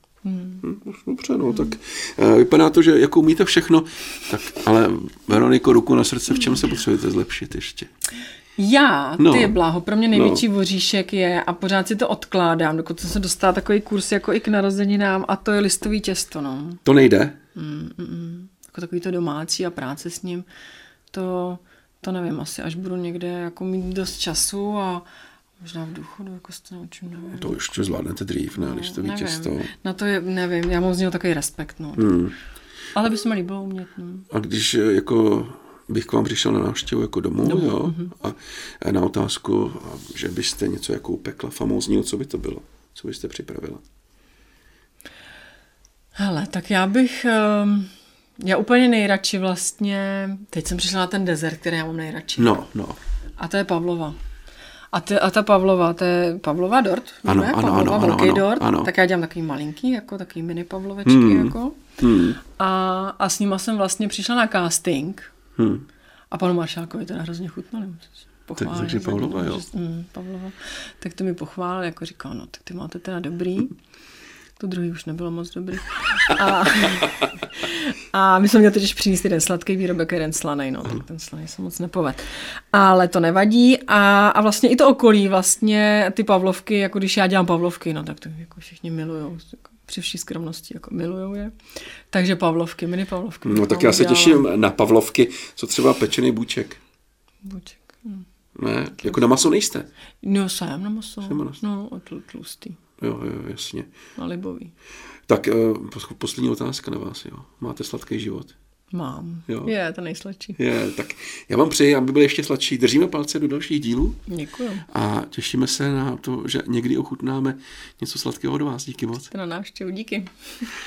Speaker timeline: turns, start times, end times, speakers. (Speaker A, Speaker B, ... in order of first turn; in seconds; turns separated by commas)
Speaker A: 0.2-0.6, Speaker B: 0.6-7.9, Speaker A: 8.6-16.8, Speaker B: 9.2-9.6, Speaker B: 10.1-10.4, Speaker B: 16.9-17.4, Speaker A: 17.6-20.5, Speaker A: 21.1-25.1, Speaker A: 25.6-27.7, Speaker B: 27.3-29.7, Speaker A: 28.6-32.1, Speaker B: 32.0-32.3, Speaker A: 33.0-34.3, Speaker B: 34.3-43.8, Speaker A: 37.4-38.1, Speaker A: 46.2-52.6, Speaker B: 52.4-53.0, Speaker A: 53.4-54.2, Speaker A: 54.9-61.8, Speaker B: 57.2-58.9, Speaker B: 61.0-62.4, Speaker A: 62.4-65.3, Speaker B: 65.6-65.9, Speaker A: 66.3-73.7, Speaker B: 68.6-69.6, Speaker A: 74.6-91.5, Speaker A: 92.1-94.5, Speaker B: 93.5-96.8, Speaker A: 97.4-98.3, Speaker B: 98.6-99.9, Speaker A: 100.2-102.8, Speaker B: 101.2-101.6, Speaker B: 103.0-103.9, Speaker A: 104.2-104.7, Speaker B: 105.3-108.5, Speaker A: 108.9-110.6, Speaker B: 110.6-114.2, Speaker A: 114.3-114.9, Speaker B: 114.9-119.3, Speaker A: 119.3-120.3